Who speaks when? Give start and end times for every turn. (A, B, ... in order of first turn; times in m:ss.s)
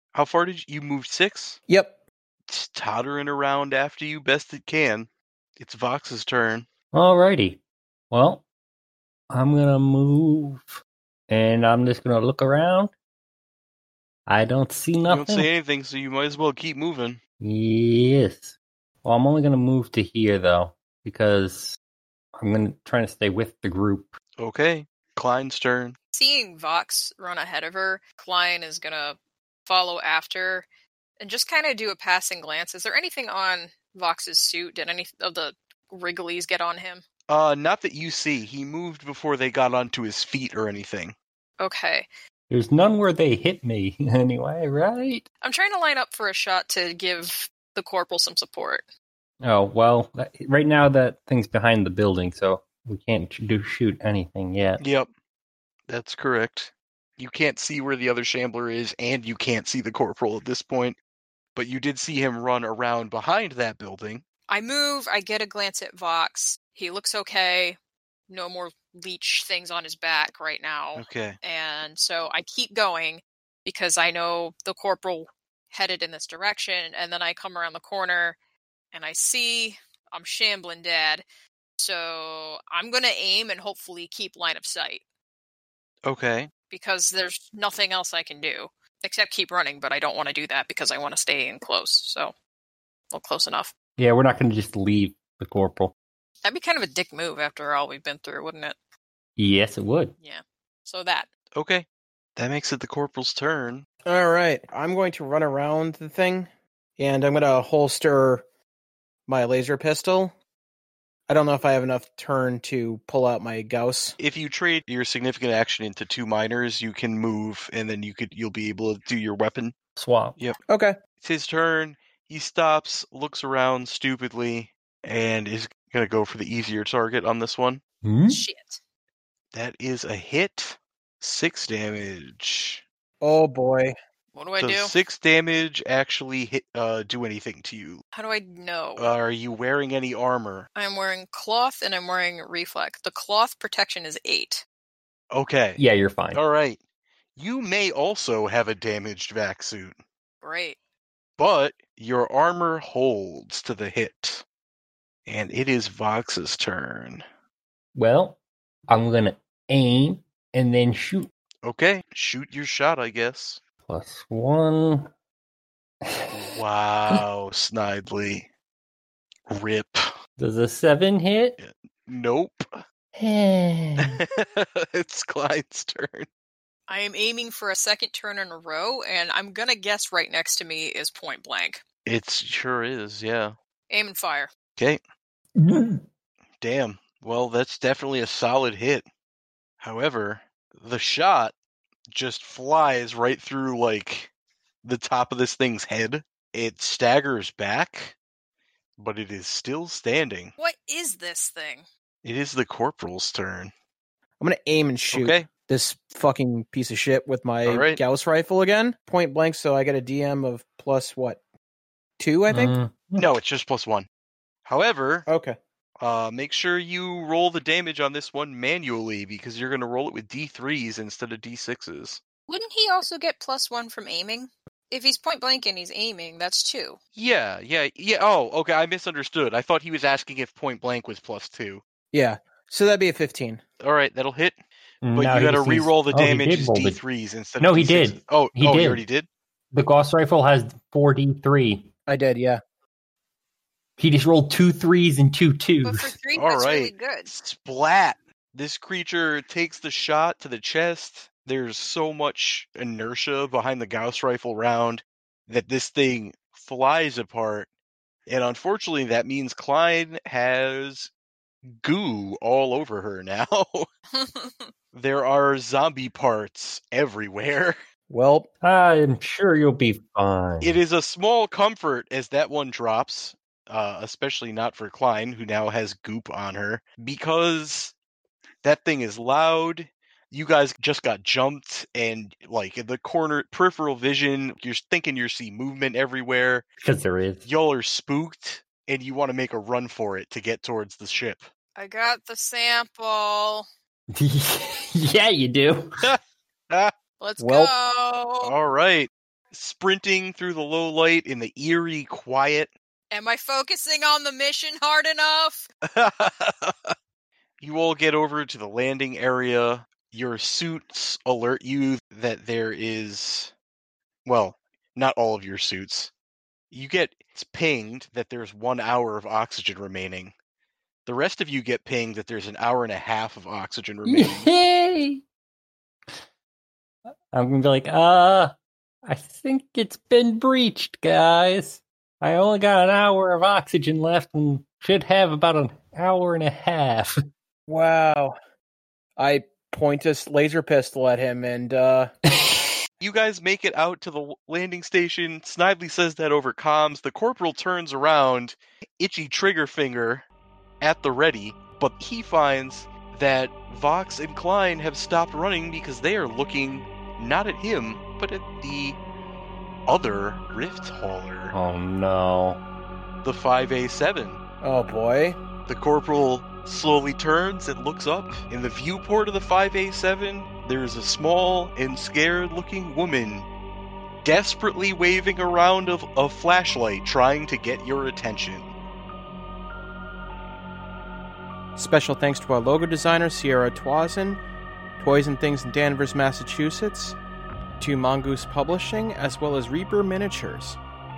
0:00.1-0:01.6 A
0:01.7-0:02.0 B
0:02.5-0:06.7 A
0:06.9-0:07.6 C
0:08.1-0:08.4 C
0:09.3-0:12.9 C
0:14.3-0:15.5 C
0:15.0-0:17.2 A
0:17.4-0:21.8 C
0:22.4-0:24.2 C
0:24.4-0:26.0 A
0:26.1-0:30.7 D
0:31.2-0:37.0 D
0:37.3-0:41.1 A
0:41.6-0:42.1 D
0:42.5-0:45.2 C
0:45.4-0:48.8 D
0:49.4-0:54.8 C
0:54.8-0:55.1 A
0:55.9-1:01.0 A
1:01.5-1:04.2 A
1:04.5-1:07.8 D
1:08.3-1:18.4 D
1:11.0-1:11.4 A
1:18.9-1:21.2 D
1:21.8-1:25.0 D
1:26.0-1:26.5 A
1:26.7-1:32.3 D
1:33.1-1:33.7 D
1:34.0-1:35.9 C
1:36.4-1:38.8 D
1:39.4-1:40.1 C
1:40.2-1:41.3 D
1:41.5-1:41.8 A
1:42.4-1:43.8 A
1:44.0-1:48.4 B
1:49.3-1:50.3 B
1:51.3-1:54.2 B
1:54.2-1:59.7 A
2:00.0-2:00.4 C
2:00.7-2:01.0 B
2:01.2-2:07.8 A
2:08.0-2:08.4 C
2:08.3-2:08.8 D
2:09.5-2:12.8 A
2:13.2-2:13.9 B
2:14.3-2:14.9 D
2:14.6-2:18.0 A
2:18.1-2:19.1 D
2:19.0-2:20.7 A
2:20.7-2:24.6 D
2:25.3-2:25.8 A
2:25.8-2:26.4 C
2:26.3-2:26.8 A
2:27.4-2:30.0 A
2:30.4-2:30.8 D
2:31.4-2:34.4 A
2:35.2-2:37.2 A
2:37.9-2:41.3 C
2:41.6-2:43.6 A
2:43.9-2:45.1 C
2:46.0-2:46.4 C
2:46.3-2:48.5 A
2:49.5-2:50.1 A
2:50.4-2:51.6 C
2:51.6-2:52.8 A
2:53.2-2:54.2 C
2:54.0-2:56.3 A
2:56.9-3:01.8 D
3:02.0-3:03.5 A
3:03.9-3:04.5 D
3:06.6-3:09.0 A
3:09.8-3:11.5 A
3:12.1-3:14.3 A
3:14.8-3:18.2 A
3:19.0-3:20.5 A
3:20.6-3:21.8 D
3:22.2-3:23.7 A
3:24.4-3:31.4 B
3:25.1-3:25.5 A
3:27.6-3:28.0 A
3:32.2-3:32.7 B
3:32.5-3:33.3 C
3:33.2-3:34.1 A
3:34.6-3:35.2 A
3:35.3-3:35.6 B
3:36.0-3:42.2 A
3:42.5-3:47.0 D
3:47.2-3:51.8 A
3:52.1-3:53.6 B
3:53.8-3:59.3 A
3:55.0-3:57.0 C
3:57.6-3:59.0 C
3:59.7-4:01.9 C
4:02.1-4:02.6 B
4:04.0-4:06.0 C
4:05.8-4:07.3 D
4:06.3-4:17.7 A
4:18.3-4:21.1 A
4:21.7-4:23.9 A
4:24.1-4:24.7 D
4:24.9-4:27.8 A
4:28.1-4:28.5 B
4:28.6-4:30.8 C
4:30.6-4:37.9 A
4:38.6-4:46.7 A
4:46.8-4:47.4 C
4:47.4-4:51.5 A
4:51.8-4:53.7 D
4:54.1-4:55.9 C
4:57.2-4:58.5 D
4:57.4-4:57.7 B
4:58.4-5:02.7 A
5:03.1-5:05.7 D
5:05.8-5:06.9 A
5:07.6-5:13.5 A
5:14.2-5:16.1 A
5:16.7-5:20.3 A
5:21.0-5:24.5 A
5:24.0-5:25.2 C
5:27.3-5:28.5 C
5:29.0-5:37.2 C
5:37.7-5:38.4 B
5:39.2-5:42.1 B
5:42.3-5:42.7 C
5:43.0-5:50.2 A
5:50.8-5:59.0 A
5:59.8-6:01.5 A
6:01.5-6:02.6 C
6:03.2-6:04.4 A
6:04.6-6:05.4 B
6:05.6-6:13.5 A
6:14.2-6:18.7 A
6:21.8-6:24.4 B
6:25.0-6:27.2 B
6:27.8-6:30.8 B